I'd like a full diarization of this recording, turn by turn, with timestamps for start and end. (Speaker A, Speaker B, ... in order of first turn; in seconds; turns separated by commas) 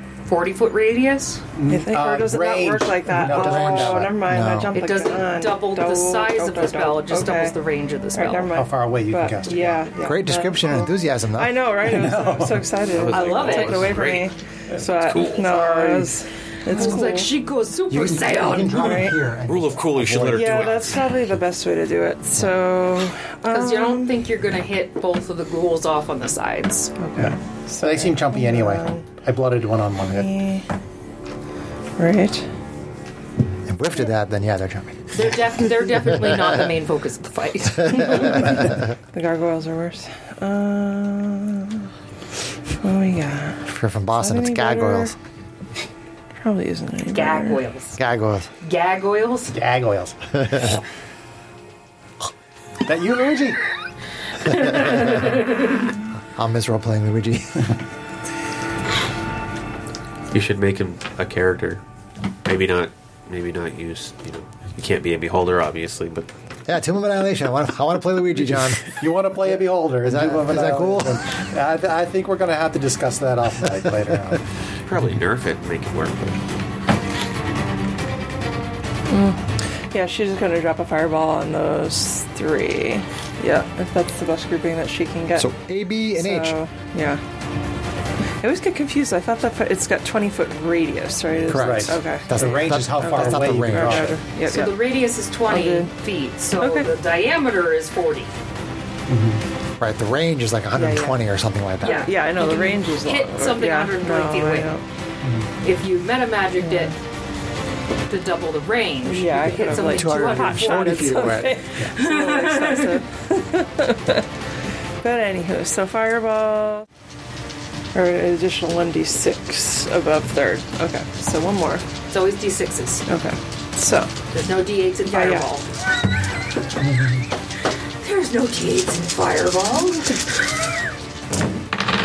Speaker A: 0.2-1.4, Speaker B: 1.6-4.1, Speaker C: 1.7-7.6, Speaker D: 3.2-4.8, Speaker A: 4.7-8.5, Speaker C: 8.1-17.3, Speaker B: 8.5-9.9, Speaker D: 10.0-11.7, Speaker B: 11.8-12.7, Speaker E: 12.9-14.3, Speaker A: 13.1-13.9, Speaker E: 14.9-15.6, Speaker A: 15.4-16.1, Speaker A: 16.7-19.0, Speaker D: 17.9-20.8, Speaker C: 18.7-19.2, Speaker E: 19.4-21.2, Speaker C: 20.3-24.2, Speaker A: 23.5-26.9, Speaker C: 27.0-29.1, Speaker B: 27.1-30.4, Speaker C: 30.0-30.6, Speaker C: 32.0-32.5, Speaker D: 33.6-35.3, Speaker A: 35.1-38.6, Speaker C: 38.2-41.9, Speaker C: 42.8-43.6, Speaker D: 43.6-45.1, Speaker C: 44.1-45.1, Speaker C: 46.4-47.6, Speaker A: 47.1-48.0, Speaker D: 48.0-48.5, Speaker A: 48.6-49.5, Speaker B: 49.5-50.2, Speaker D: 50.4-50.8, Speaker B: 52.9-53.6, Speaker A: 54.6-55.6, Speaker D: 56.3-57.7, Speaker E: 60.3-61.8, Speaker E: 62.4-66.3, Speaker D: 66.7-68.9, Speaker B: 69.0-74.4, Speaker D: 70.0-71.2, Speaker E: 74.8-76.4, Speaker C: 79.1-85.5, Speaker D: 85.4-86.6, Speaker C: 86.1-87.2, Speaker C: 88.4-94.8, Speaker D: 91.5-94.2, Speaker B: 91.5-94.2, Speaker A: 94.4-98.3, Speaker C: 95.5-95.9, Speaker C: 96.6-96.9, Speaker B: 99.1-99.4, Speaker D: 99.8-102.1, Speaker C: 100.7-101.2, Speaker A: 101.8-104.7, Speaker C: 101.8-104.8, Speaker B: 105.2-105.5, Speaker A: 105.6-106.9, Speaker C: 106.6-106.9, Speaker A: 108.1-113.0, Speaker C: 109.0-114.2, Speaker D: 109.7-111.7, Speaker C: 115.0-116.8, Speaker C: 117.9-121.8, Speaker A: 122.1-123.0, Speaker C: 123.1-124.2, Speaker A: 124.3-125.7, Speaker C: 125.0-125.5, Speaker A: 128.0-130.6